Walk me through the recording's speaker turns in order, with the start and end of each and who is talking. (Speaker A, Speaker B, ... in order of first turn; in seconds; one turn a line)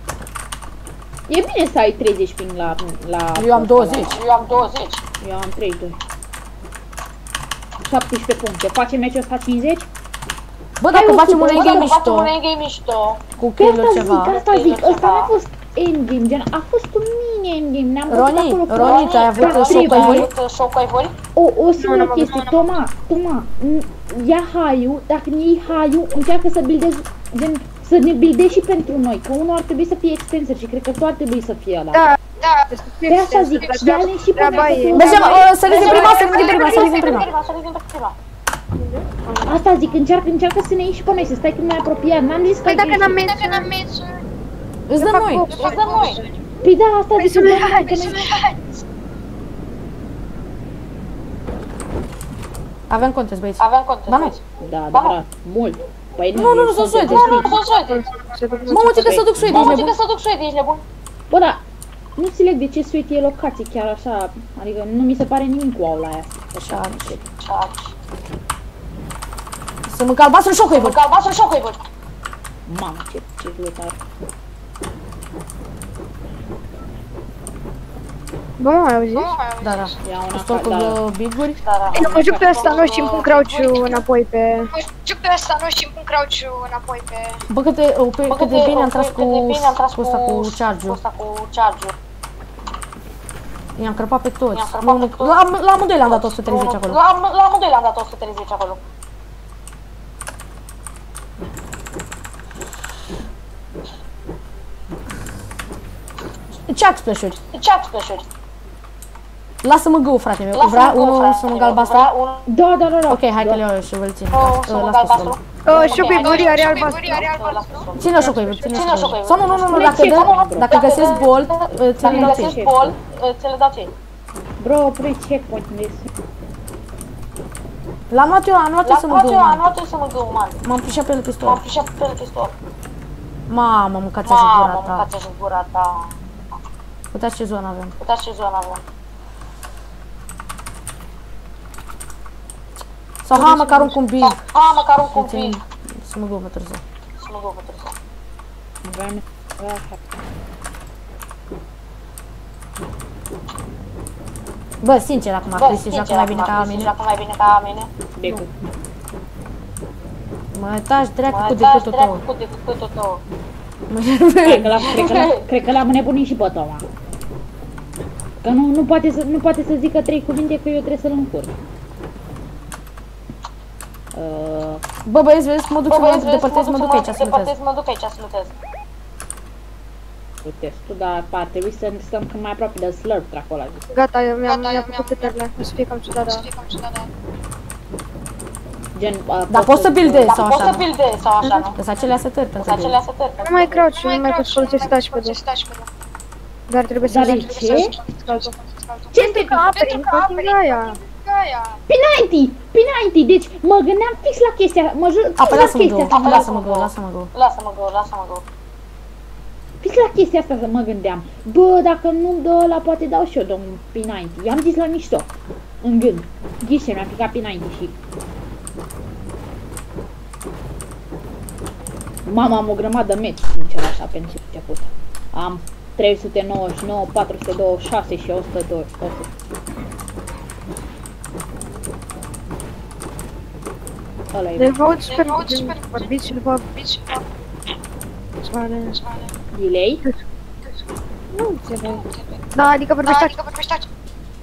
Speaker A: 1.3-4.1
Speaker B: 3.4-4.1
Speaker C: 4.1-5.0
Speaker A: 5.2-6.0
Speaker A: 7.8-9.9
Speaker B: 10.8-12.3
Speaker A: 10.9-11.9
Speaker C: 11.5-13.2
Speaker B: 13.4-14.4
Speaker A: 13.6-20.3
Speaker C: 14.4-15.3
Speaker B: 18.1-20.3
Speaker C: 18.8-21.2
Speaker A: 21.4-32.1
Speaker D: 21.8-22.5
Speaker E: 32.4-32.7
Speaker D: 32.7-37.3
Speaker A: 33.1-35.5
Speaker B: 34.9-37.3
Speaker C: 35.6-38.2
Speaker D: 38.8-39.6
Speaker A: 39.5-43.2
Speaker D: 42.7-43.7
Speaker E: 43.0-44.2
Speaker B: 44.9-45.5
Speaker D: 45.0-46.3
Speaker E: 45.5-46.4
Speaker C: 45.5-46.2
Speaker A: 46.6-48.2
Speaker D: 47.2-48.1
Speaker E: 47.8-48.8
Speaker B: 52.9-54.4
Speaker C: 53.6-55.2
Speaker A: 54.6-57.6
Speaker B: 56.3-57.4
Speaker C: 57.2-58.1
Speaker D: 57.2-59.3
Speaker B: 58.7-60.0
Speaker A: 58.7-59.8
Speaker C: 59.5-60.8
Speaker A: 61.3-61.6
Speaker A: 62.2-67.2
Speaker B: 66.6-67.1
Speaker C: 67.4-67.9
Speaker B: 69.9-71.0
Speaker C: 70.7-71.8
Speaker A: 72.7-73.9
Speaker D: 78.6-79.3
Speaker E: 79.1-80.0
Speaker B: 79.6-81.6
Speaker A: 80.0-81.0
Speaker C: 81.6-83.3
Speaker A: 81.9-82.8
Speaker D: 81.9-84.7
Speaker E: 82.6-84.0
Speaker E: 84.7-87.4
Speaker B: 87.5-91.0
Speaker C: 88.3-91.9
Speaker B: 93.8-97.0
Speaker C: 94.5-95.4
Speaker C: 96.0-98.8
Speaker B: 106.7-107.4
Speaker C: 107.5-108.3
Speaker B: 109.6-112.1
Speaker C: 110.5-112.5
Speaker A: 112.5-113.6
Speaker B: 113.1-115.4
Speaker C: 114.3-123.9
Speaker D: 115.7-117.3
Speaker E: 115.8-117.9
Speaker B: 118.0-122.6
Speaker D: 118.2-119.1
Speaker A: 119.6-120.7
Speaker A: 122.0-122.9
Speaker A: 124.6-126.1
Speaker B: 128.1-129.7
Speaker C: 128.8-130.6
Speaker B: 130.6-131.6
Speaker C: 131.4-132.5
Speaker B: 133.5-135.1
Speaker C: 134.2-136.2
Speaker B: 137.1-137.9
Speaker C: 138.0-138.8
Speaker B: 143.2-144.4
Speaker A: 143.3-144.0
Speaker C: 144.2-145.6
Speaker B: 145.1-146.8
Speaker C: 147.2-147.9
Speaker A: 148.8-150.0
Speaker B: 154.8-156.9
Speaker C: 155.5-157.9
Speaker A: 158.2-158.5
Speaker B: 160.5-162.2
Speaker C: 161.3-163.2
Speaker B: 163.9-165.0
Speaker A: 164.5-166.9
Speaker C: 164.9-165.4
Speaker A: 168.4-171.5
Speaker A: 174.1-174.8
Speaker B: 175.1-177.5
Speaker C: 175.9-178.5
Speaker A: 180.4-183.8
Speaker D: 183.9-186.5
Speaker E: 184.4-185.3
Speaker E: 186.3-187.1
Speaker A: 189.0-190.4
Speaker B: 189.5-190.8
Speaker C: 190.2-191.8
Speaker D: 191.4-191.7
Speaker B: 191.8-193.0
Speaker C: 192.6-193.8
Speaker D: 193.4-195.4
Speaker E: 193.8-195.9
Speaker D: 196.7-198.5
Speaker A: 197.1-197.9
Speaker E: 197.2-201.8
Speaker A: 199.1-199.7
Speaker D: 199.2-201.0
Speaker A: 201.9-206.5
Speaker B: 205.4-207.3
Speaker C: 206.1-208.4
Speaker A: 209.8-215.3
Speaker A: 215.8-217.9
Speaker A: 222.3-229.3
Speaker A: 234.3-234.8
Speaker D: 234.6-236.7
Speaker E: 235.1-236.1
Speaker E: 236.7-237.2
Speaker D: 238.5-239.0
Speaker E: 238.8-239.3
Speaker A: 239.5-240.0
Speaker D: 241.3-242.0
Speaker E: 241.8-242.4
Speaker D: 242.6-243.4
Speaker E: 243.0-243.9